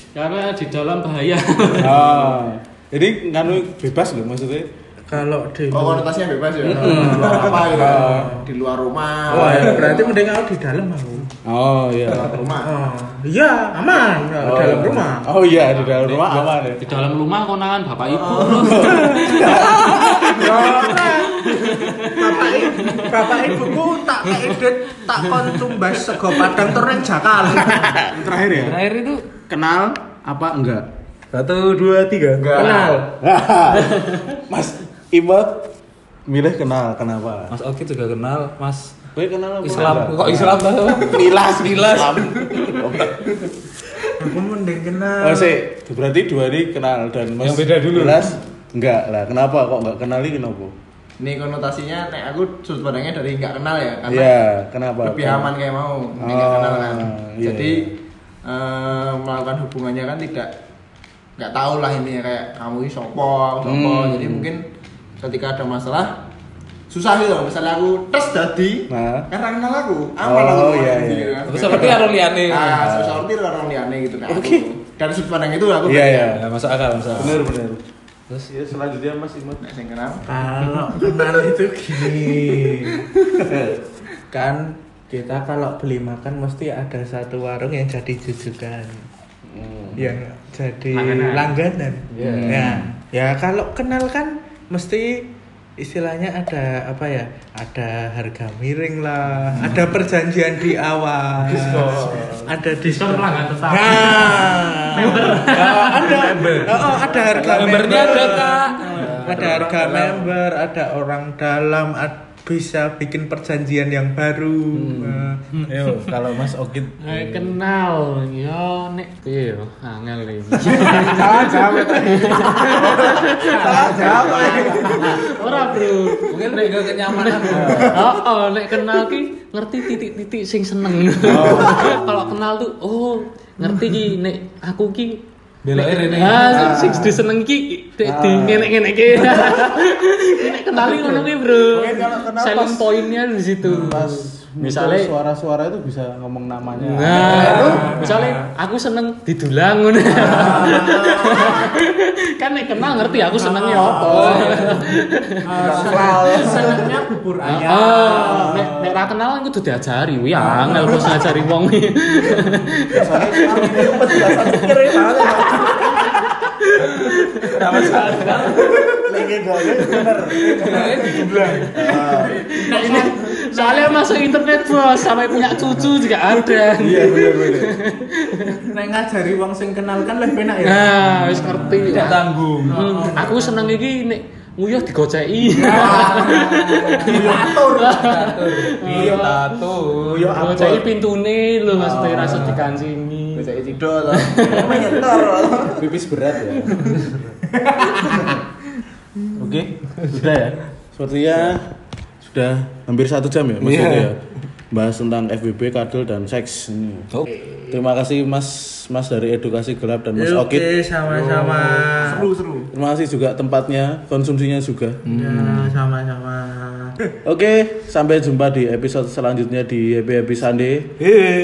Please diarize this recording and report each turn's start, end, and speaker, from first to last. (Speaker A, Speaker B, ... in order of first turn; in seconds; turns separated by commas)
Speaker A: 0.1-2.0, Speaker B: 1.8-4.7, Speaker C: 5.1-6.1, Speaker D: 5.7-10.1, Speaker B: 6.6-8.3, Speaker C: 6.6-8.4, Speaker B: 9.3-10.1, Speaker C: 9.3-11.3, Speaker B: 11.4-12.4, Speaker D: 12.1-12.7, Speaker C: 12.6-15.3, Speaker B: 14.4-16.8, Speaker A: 16.8-20.0, Speaker C: 18.2-19.2, Speaker D: 18.3-18.9, Speaker B: 18.3-21.1, Speaker E: 19.4-20.4, Speaker C: 20.3-28.2, Speaker A: 21.1-26.6, Speaker B: 27.4-28.8, Speaker E: 28.5-29.2, Speaker B: 29.5-30.9, Speaker E: 31.3-33.0, Speaker D: 32.4-33.0, Speaker C: 32.5-33.1, Speaker A: 32.6-32.9, Speaker B: 33.1-35.7, Speaker A: 33.8-34.2, Speaker B: 36.2-37.5, Speaker E: 37.5-39.0, Speaker B: 39.1-43.5, Speaker E: 39.6-41.6, Speaker C: 44.1-45.6, Speaker B: 45.2-50.7, Speaker E: 47.4-48.4, Speaker D: 51.2-54.3, Speaker B: 54.1-55.5, Speaker D: 55.0-57.9, Speaker B: 56.2-57.9, Speaker D: 58.4-60.5, Speaker D: 61.4-64.6, Speaker B: 63.6-64.5, Speaker D: 65.2-66.1, Speaker D: 66.9-76.4, Speaker B: 68.9-69.3, Speaker B: 70.2-72.0, Speaker E: 71.5-73.0, Speaker B: 72.8-73.2, Speaker B: 74.3-74.7, Speaker B: 75.8-76.4, Speaker E: 76.3-77.5, Speaker B: 77.1-77.8, Speaker B: 78.5-79.6, Speaker D: 79.6-80.2, Speaker C: 80.2-83.7, Speaker B: 83.4-83.8, Speaker C: 84.3-89.0, Speaker B: 89.5-90.2, Speaker C: 89.9-115.4, Speaker A: 90.9-91.6, Speaker E: 92.1-92.7, Speaker B: 92.2-92.9, Speaker B: 101.4-102.5, Speaker E: 101.7-102.2, Speaker A: 102.8-106.7, Speaker B: 104.1-105.1, Speaker E: 106.4-106.7, Speaker B: 106.8-109.8, Speaker E: 107.4-109.1, Speaker D: 109.0-110.3, Speaker B: 114.7-117.6, Speaker A: 117.0-126.6, Speaker B: 120.8-125.2, Speaker C: 120.8-125.2, Speaker D: 123.6-125.6, Speaker E: 126.3-127.9, Speaker A: 127.1-145.1, Speaker B: 127.4-128.2, Speaker B: 131.2-132.3, Speaker E: 135.6-137.1, Speaker B: 136.2-137.2, Speaker B: 138.0-139.9, Speaker B: 141.6-143.1, Speaker B: 143.6-148.1, Speaker A: 146.8-155.5, Speaker E: 147.1-147.6, Speaker C: 147.2-148.5, Speaker B: 150.1-151.4, Speaker C: 150.2-151.7, Speaker C: 153.0-158.6, Speaker B: 154.1-154.8, Speaker E: 154.1-154.5, Speaker D: 155.6-156.9, Speaker B: 155.6-156.9, Speaker A: 156.0-156.8, Speaker A: 157.4-164.8, Speaker B: 158.1-159.0, Speaker B: 160.4-161.3, Speaker C: 160.4-161.3, Speaker B: 162.9-166.1, Speaker D: 163.7-166.1, Speaker A: 165.6-166.1, Speaker A: 166.7-168.3, Speaker B: 167.4-170.9, Speaker E: 167.7-168.9, Speaker A: 169.9-171.5, Speaker C: 170.3-174.6, Speaker E: 170.7-171.6, Speaker B: 171.7-172.5, Speaker A: 172.6-178.6, Speaker B: 176.8-177.7, Speaker C: 178.6-183.8, Speaker A: 180.6-189.7, Speaker E: 181.7-182.8, Speaker E: 185.7-186.5, Speaker C: 185.7-187.1, Speaker D: 185.8-186.1, Speaker D: 187.1-188.2, Speaker E: 187.1-190.4, Speaker B: 187.1-187.6, Speaker B: 188.8-190.9, Speaker A: 190.3-194.8, Speaker B: 191.7-192.7, Speaker D: 193.3-195.9, Speaker B: 194.4-196.8, Speaker E: 196.7-197.4, Speaker C: 197.6-198.3, Speaker D: 197.8-198.4, Speaker B: 199.3-204.2, Speaker E: 203.6-204.1, Speaker B: 204.7-207.1, Speaker B: 207.7-211.7, Speaker C: 210.1-212.3, Speaker D: 211.5-212.7, Speaker B: 212.7-215.7, Speaker C: 215.1-217.0, Speaker E: 215.1-215.6, Speaker B: 217.2-221.1